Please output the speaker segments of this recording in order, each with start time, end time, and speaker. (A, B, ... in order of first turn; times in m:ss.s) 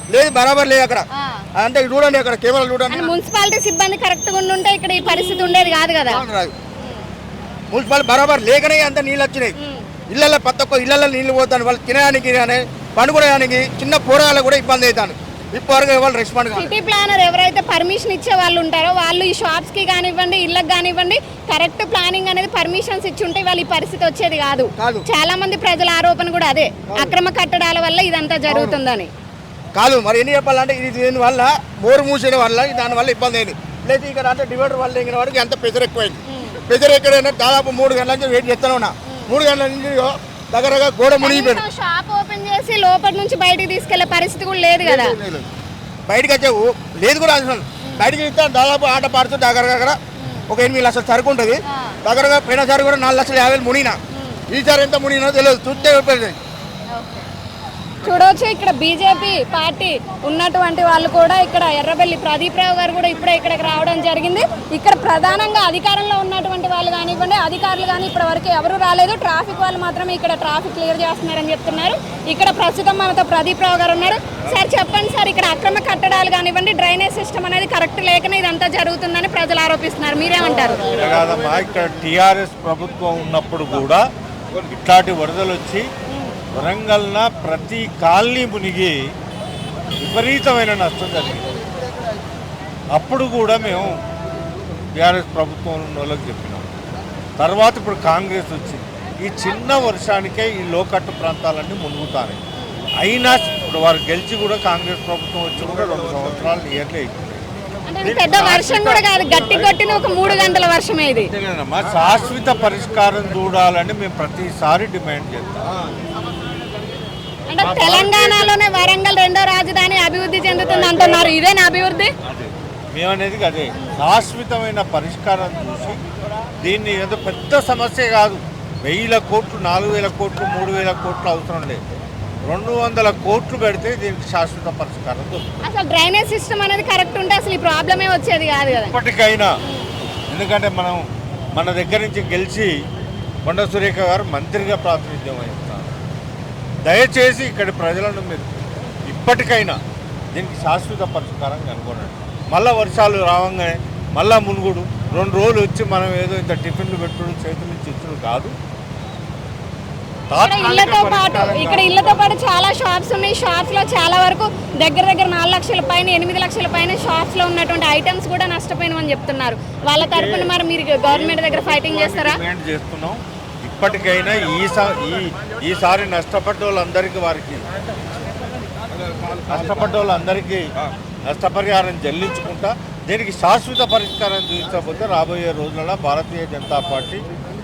0:00.1-0:01.0 A
0:01.1-0:01.4 B
0:01.6-0:03.1 A
0:02.9-0:06.2 B
0:06.0-0:06.5 A
0:07.7-0:09.5 A
0:09.6-0:09.9 B
0:10.1-0:16.7 A
0:16.6-0:29.1 B
0:24.8-0:25.0 A
0:26.9-0:27.1 A
0:28.5-0:28.8 A
0:29.7-0:41.6 A
0:36.3-0:36.6 B
0:39.1-0:39.4 B
0:41.2-0:45.2 B
0:44.8-0:45.4 A
0:46.1-0:50.0 A
0:47.8-0:48.1 B
0:50.2-0:50.5 B
0:50.5-0:54.0 A
0:51.7-0:52.0 B
0:54.1-0:54.4 B
0:54.5-0:56.4 A
0:56.9-0:57.3 B
0:58.0-1:20.8 B
1:20.9-1:24.0 C
1:24.7-1:25.8 C
1:26.1-1:26.4 B
1:26.5-1:29.0 C
1:30.0-1:31.5 C
1:32.9-1:33.9 C
1:35.0-1:36.6 C
1:37.4-1:42.4 C
1:42.6-1:42.8 B
1:43.0-1:47.4 C
1:47.9-1:51.3 B
1:48.0-1:49.9 C
1:51.3-1:55.8 C
1:57.5-2:02.1 B
1:57.6-1:58.5 C
2:02.3-2:06.0 C
2:06.6-2:11.8 C
2:12.4-2:15.5 C
2:15.6-2:19.0 B
2:18.7-2:19.5 C
2:19.6-2:19.9 B
2:20.3-2:22.7 C
2:23.4-2:25.9 C
2:26.9-2:28.5 C
2:29.0-2:29.8 C
2:30.3-2:38.5 C
2:40.3-2:42.0 C
2:40.4-2:52.4 B
2:50.0-2:50.5 C
2:51.1-2:57.6 C
2:59.5-3:00.6 C
3:01.3-3:07.2 C